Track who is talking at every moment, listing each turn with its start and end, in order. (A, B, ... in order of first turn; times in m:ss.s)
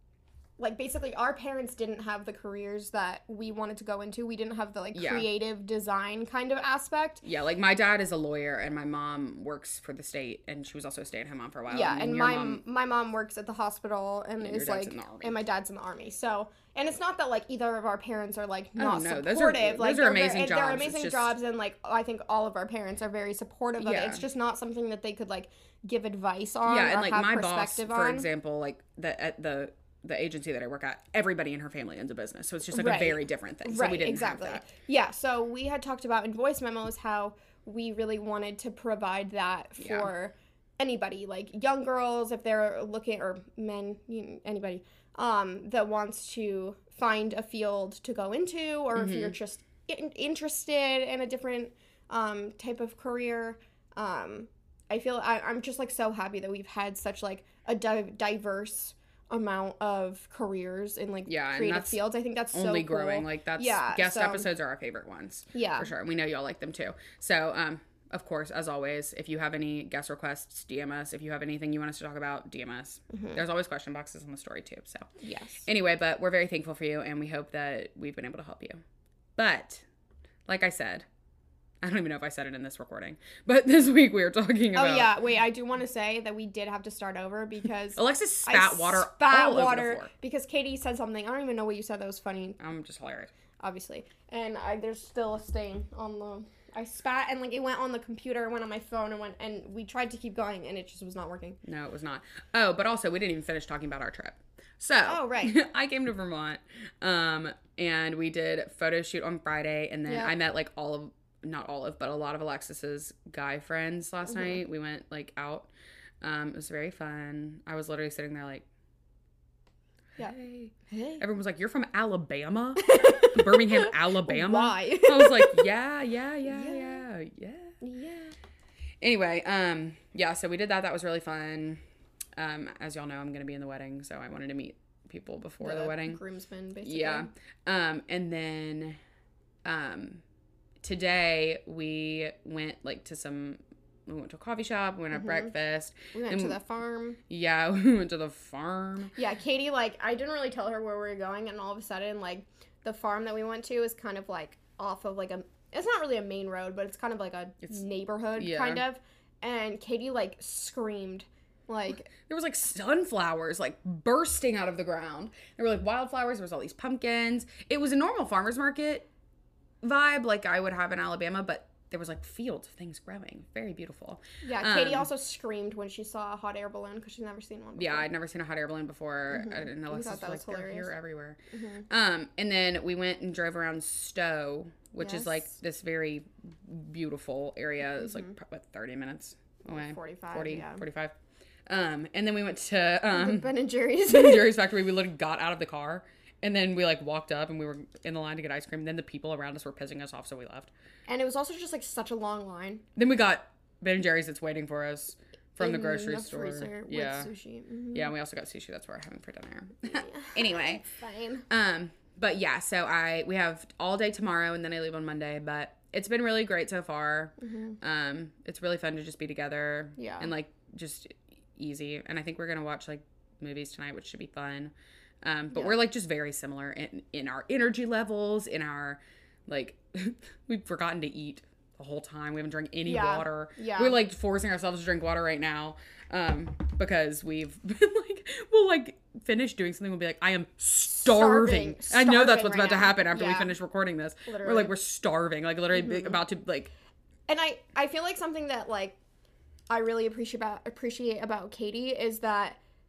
0:00.6-0:07.2 A
0:04.9-0:05.3 B
0:07.2-0:12.6 B
0:11.7-0:28.3 A
0:14.4-0:15.3 B
0:18.8-0:21.3 B
0:23.8-0:24.2 B
0:26.6-0:34.6 B
0:32.7-1:04.4 A
0:39.8-0:40.1 B
0:48.9-0:49.4 B
1:01.2-1:02.0 B
1:02.5-1:15.1 B
1:05.5-1:05.9 A
1:13.1-1:13.4 A
1:15.2-1:15.6 A
1:15.6-1:18.8 B
1:19.4-1:19.8 B
1:20.5-1:21.0 B
1:21.8-1:25.1 B
1:24.7-1:32.6 A
1:28.0-1:30.1 B
1:32.6-1:33.3 B
1:33.6-1:41.6 A
1:41.6-1:55.7 B
1:45.0-1:45.5 A
1:50.1-1:50.3 A
1:54.3-1:54.6 A
1:56.2-1:58.6 B
2:00.2-2:07.8 B
2:00.9-2:01.2 A
2:02.8-2:05.6 A
2:06.4-2:07.0 A
2:07.8-2:08.3 A
2:09.0-2:11.8 B
2:12.4-2:16.2 B
2:15.6-2:17.3 A
2:16.8-2:19.0 B
2:19.6-2:20.2 B
2:20.8-2:26.6 B
2:25.1-2:25.5 A
2:26.1-2:27.2 A
2:27.3-2:29.2 B
2:29.1-2:42.1 A
2:38.4-2:38.8 B
2:42.2-2:49.1 B
2:49.8-2:55.1 B
2:54.4-2:58.1 A
2:57.7-3:11.1 B
2:59.3-3:00.9 A
3:01.5-3:01.8 A
3:05.0-3:05.5 A
3:08.0-3:08.3 A
3:09.6-3:10.8 A
3:11.7-3:13.5 B
3:13.1-3:14.6 A
3:14.1-3:20.7 B
3:21.1-3:22.8 A
3:23.0-3:27.3 B
3:25.6-3:28.1 A
3:27.9-3:30.8 B
3:29.9-3:31.4 A
3:31.5-4:06.7 B
3:37.4-3:37.8 A
3:40.0-3:40.3 A
3:52.8-3:54.0 A
4:00.9-4:03.5 A
4:04.2-4:04.7 A
4:05.7-4:06.2 A
4:07.3-4:09.0 A
4:09.7-4:12.6 A